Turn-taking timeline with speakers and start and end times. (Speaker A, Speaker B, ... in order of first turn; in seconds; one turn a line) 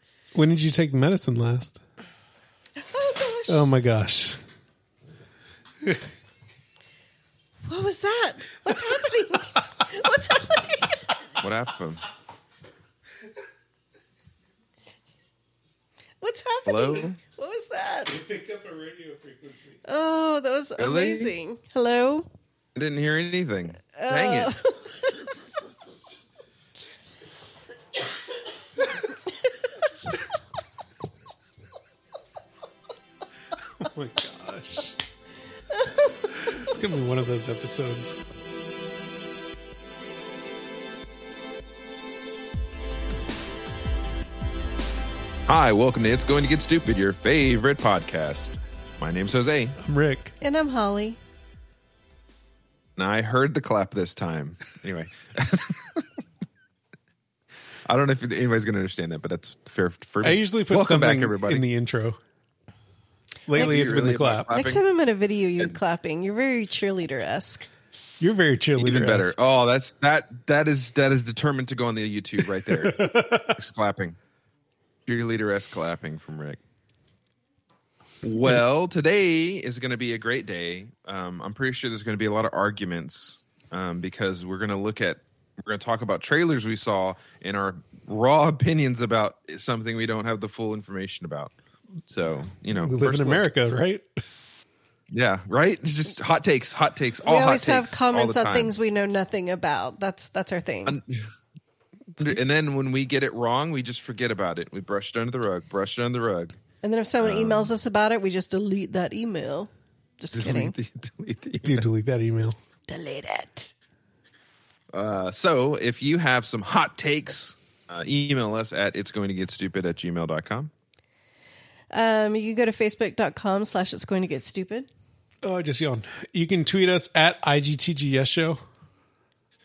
Speaker A: 0.3-1.8
Speaker B: 2.8-3.7
Speaker A: 3.5-4.4
Speaker B: 7.7-11.1
Speaker C: 11.4-12.0
Speaker B: 16.2-18.2
Speaker C: 16.7-17.2
Speaker A: 18.1-19.8
Speaker B: 19.9-22.3
Speaker C: 20.8-21.3
Speaker C: 22.8-24.6
Speaker B: 23.9-25.5
Speaker A: 33.8-35.0
Speaker A: 36.4-38.2
Speaker C: 45.5-49.8
Speaker A: 49.8-50.3
Speaker B: 50.4-51.2
Speaker C: 53.0-56.1
Speaker C: 57.9-61.6
Speaker A: 60.2-62.2
Speaker A: 63.5-64.5
Speaker C: 63.5-64.8
Speaker B: 63.5-63.9
Speaker B: 64.5-67.7
Speaker A: 68.2-69.4
Speaker C: 68.8-74.2
Speaker A: 72.7-73.6
Speaker C: 75.1-76.6
Speaker C: 78.2-91.5
Speaker C: 92.1-93.5
Speaker A: 92.7-94.2
Speaker C: 95.1-98.7
Speaker B: 97.2-101.0
Speaker C: 100.9-101.3
Speaker C: 102.2-106.6
Speaker B: 106.8-110.8
Speaker C: 107.2-107.7
Speaker C: 110.3-111.9
Speaker A: 111.6-112.6
Speaker B: 112.9-113.7
Speaker C: 114.9-120.7
Speaker B: 121.9-124.9
Speaker A: 125.4-128.6